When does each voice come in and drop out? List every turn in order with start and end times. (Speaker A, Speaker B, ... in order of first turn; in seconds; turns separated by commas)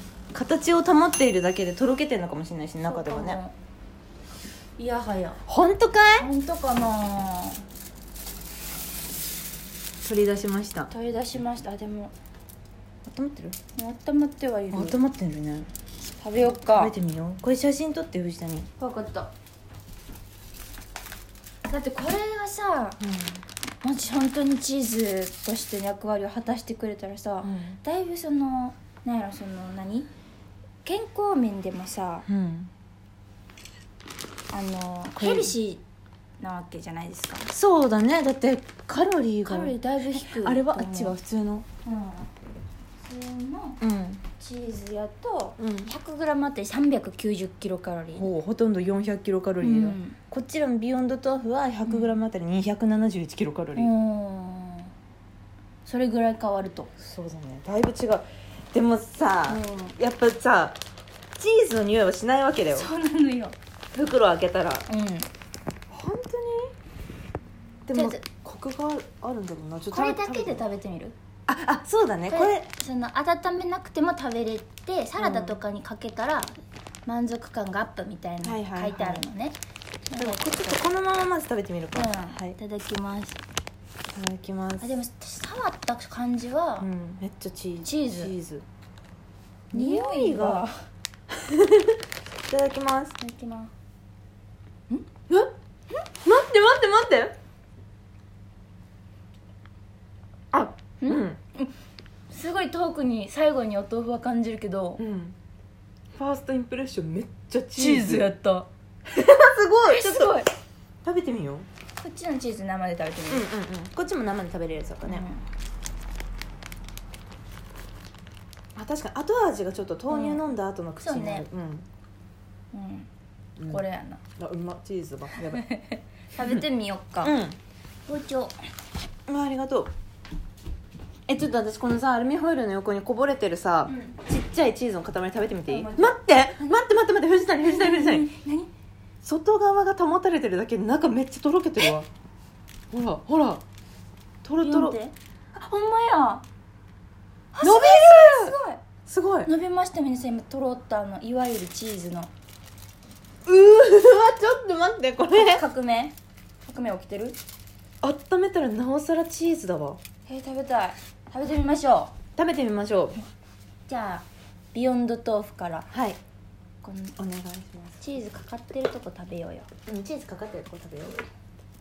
Speaker A: 0.3-3.4, Speaker B: 2.9-3.5, Speaker B: 4.8-5.4, Speaker A: 5.5-6.3, Speaker B: 6.2-7.6, Speaker A: 10.0-10.9, Speaker B: 10.9-12.1, Speaker A: 13.0-13.6, Speaker B: 13.8-15.0, Speaker A: 14.7-15.7, Speaker B: 16.2-16.9, Speaker A: 16.6-18.7, Speaker B: 18.8-19.3, Speaker B: 21.7-23.0, Speaker A: 23.0-23.4, Speaker B: 23.8-30.1, Speaker A: 27.4-27.8, Speaker B: 30.8-32.3, Speaker A: 32.3-32.7, Speaker B: 34.5-35.8, Speaker A: 35.1-35.5, Speaker B: 36.4-37.5, Speaker A: 37.5-41.6, Speaker B: 39.5-41.1, Speaker B: 41.8-42.3, Speaker B: 43.0-43.8, Speaker A: 43.8-44.2, Speaker B: 44.4-48.3, Speaker A: 45.6-45.9, Speaker A: 48.1-53.9, Speaker B: 49.6-50.2, Speaker B: 51.9-52.2, Speaker B: 53.8-54.9, Speaker B: 55.8-56.9, Speaker A: 57.0-60.8, Speaker B: 59.5-59.9, Speaker A: 61.4-62.9, Speaker B: 62.7-63.5, Speaker A: 63.9-64.8, Speaker B: 64.9-65.3, Speaker A: 65.9-66.7, Speaker A: 67.9-70.6, Speaker B: 67.9-68.2, Speaker B: 69.9-71.2, Speaker A: 71.5-72.7, Speaker B: 72.3-76.5, Speaker A: 75.2-75.6, Speaker B: 77.0-79.6, Speaker A: 78.4-79.3, Speaker B: 80.1-80.8, Speaker A: 80.2-82.6, Speaker B: 81.9-83.4, Speaker A: 84.1-84.9, Speaker B: 84.8-86.9, Speaker A: 86.8-88.6, Speaker B: 87.8-88.3, Speaker A: 89.7-90.7, Speaker B: 89.7-90.8, Speaker A: 91.3-93.2, Speaker B: 93.2-93.7, Speaker A: 96.2-97.3, Speaker A: 100.5-101.4, Speaker B: 101.0-101.7, Speaker B: 102.3-105.0, Speaker A: 105.0-105.3, Speaker A: 106.1-108.3, Speaker B: 107.8-108.7, Speaker A: 109.1-110.4, Speaker B: 109.9-110.5, Speaker A: 111.0-111.7, Speaker B: 112.0-113.5, Speaker A: 113.3-115.2, Speaker B: 115.0-115.4, Speaker A: 118.8-121.9, Speaker B: 120.1-120.4, Speaker B: 121.0-121.5, Speaker B: 122.7-123.1, Speaker A: 123.6-123.8, Speaker B: 123.7-124.2, Speaker A: 124.4-125.6, Speaker B: 125.4-127.3, Speaker A: 127.2-127.6, Speaker B: 128.1-128.6, Speaker A: 129.3-129.9, Speaker A: 131.3-138.3, Speaker B: 133.9-134.2, Speaker B: 135.7-136.2, Speaker B: 137.6-138.7, Speaker A: 139.2-142.1, Speaker A: 142.9-143.6, Speaker A: 144.4-145.0, Speaker B: 144.6-146.4, Speaker B: 147.5-148.8, Speaker A: 147.6-148.6, Speaker A: 149.1-149.5, Speaker B: 149.4-152.3, Speaker A: 153.4-155.6, Speaker B: 155.3-156.1, Speaker B: 156.7-157.4, Speaker A: 158.0-160.0, Speaker B: 160.3-162.1, Speaker A: 162.3-163.2, Speaker B: 163.9-165.9, Speaker A: 165.9-166.2, Speaker B: 166.8-167.1, Speaker A: 167.2-168.0, Speaker B: 168.0-169.7, Speaker A: 169.9-171.2